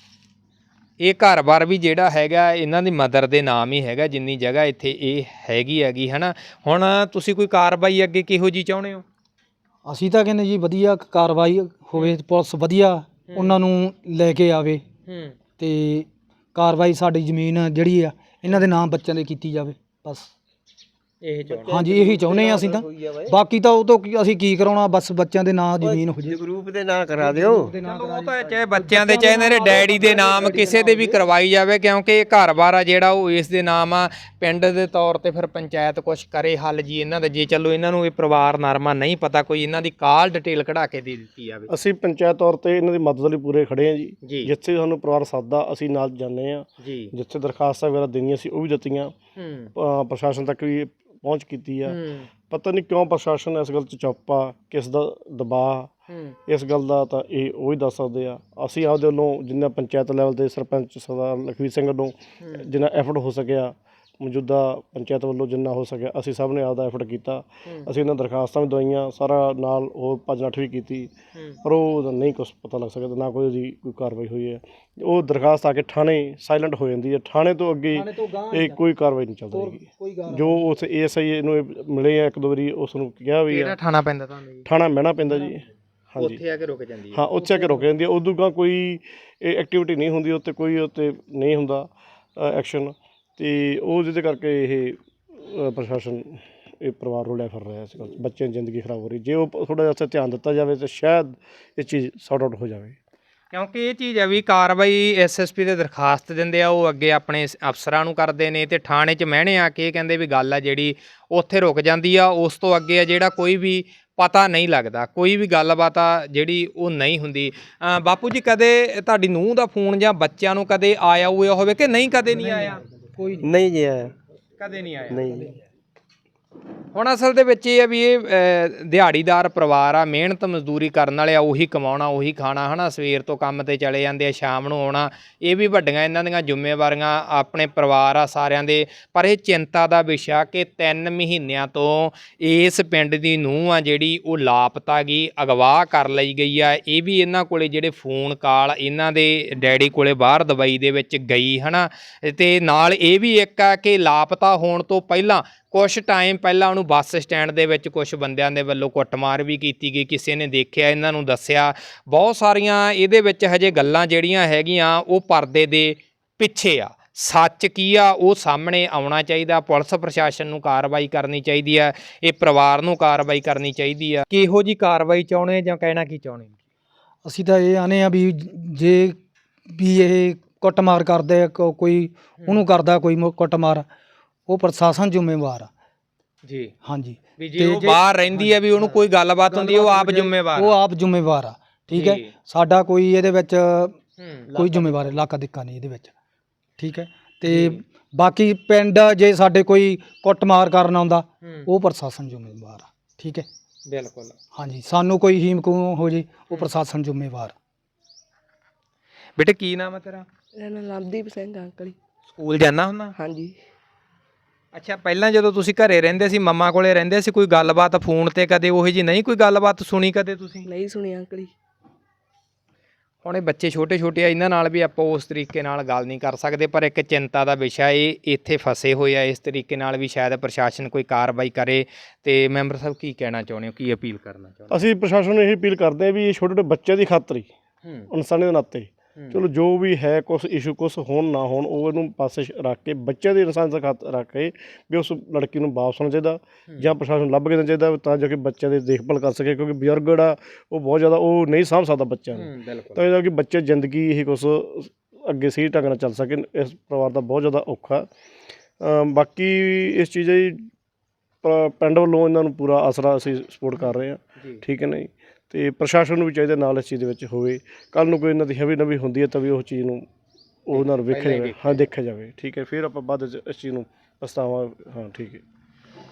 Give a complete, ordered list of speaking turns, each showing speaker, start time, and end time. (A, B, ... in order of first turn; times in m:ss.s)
0:01.0-0:09.0 A
0:09.8-0:14.8 B
0:13.3-0:13.6 A
0:15.1-0:15.4 A
0:15.6-0:20.3 B
0:21.2-0:21.8 A
0:21.5-0:23.3 C
0:21.7-0:26.4 B
0:25.8-0:27.7 C
0:27.2-0:31.2 B
0:27.8-0:41.7 A
0:41.7-0:49.1 D
0:44.2-0:44.5 A
0:46.8-0:47.1 A
0:49.4-0:49.7 A
0:49.8-0:55.9 D
0:51.8-0:52.3 A
0:56.1-0:56.4 A
0:56.5-1:11.1 D
1:02.4-1:02.7 A
1:07.6-1:07.9 A
1:11.6-1:23.8 D
1:17.9-1:18.8 B
1:19.5-1:20.8 B
1:23.5-1:24.7 A
1:24.6-1:26.4 D
1:26.2-1:27.2 A
1:27.1-1:43.0 D
1:27.4-1:27.9 B
1:43.5-2:02.8 A
2:02.3-2:03.5 B
2:03.4-2:04.1 C
2:04.6-2:05.2 A
2:05.1-2:05.5 C
2:05.2-2:05.5 B
2:06.9-2:56.6 A
2:57.2-3:03.9 B
3:04.5-3:05.7 B
3:06.4-3:06.7 A
3:06.8-3:14.0 B
3:07.4-3:10.8 A
3:11.9-3:12.3 A
3:14.2-3:14.5 A
3:14.5-3:16.1 B
3:14.5-3:15.1 C
3:16.8-3:23.5 B
3:17.5-3:17.8 A
3:21.4-3:21.7 A
3:23.9-3:24.4 A
3:24.5-3:27.6 B
3:29.4-3:30.3 A
3:30.6-3:32.0 E
3:32.3-3:33.2 A
3:33.2-3:33.6 E
3:34.7-3:40.7 A
3:40.6-3:41.5 E
3:43.2-3:54.8 A
3:54.7-3:57.5 D
3:57.8-3:58.1 A
3:58.1-4:18.1 D
4:12.3-4:13.0 A
4:18.8-4:20.6 D
4:21.4-4:30.1 D
4:23.8-4:24.6 A
4:30.7-4:35.4 D
4:30.7-4:31.8 A